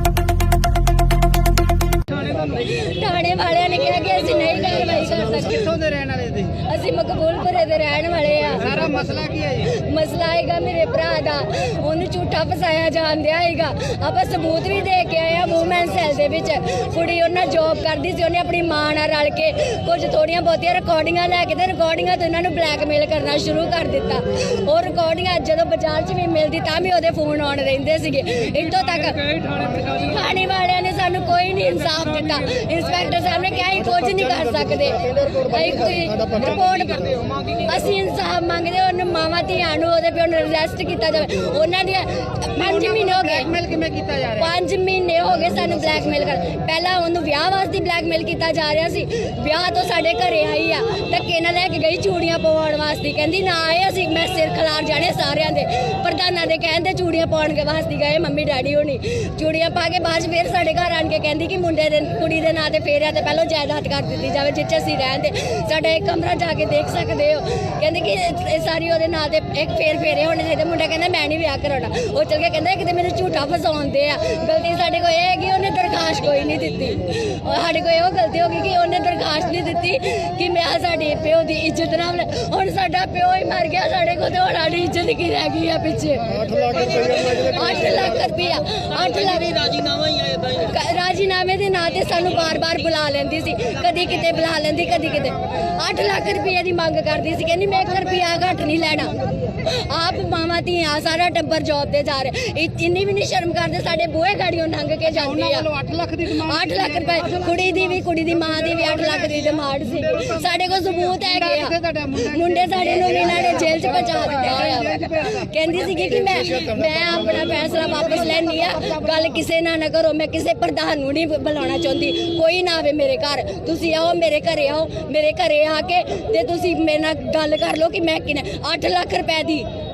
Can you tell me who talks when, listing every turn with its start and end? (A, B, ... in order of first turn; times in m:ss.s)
0:02.2-0:05.8 A
0:05.7-0:06.5 B
0:06.5-0:43.6 A
0:08.8-0:09.6 B
0:43.6-0:44.4 B
0:44.2-2:09.7 A
1:45.7-1:46.3 B
1:51.8-1:52.3 B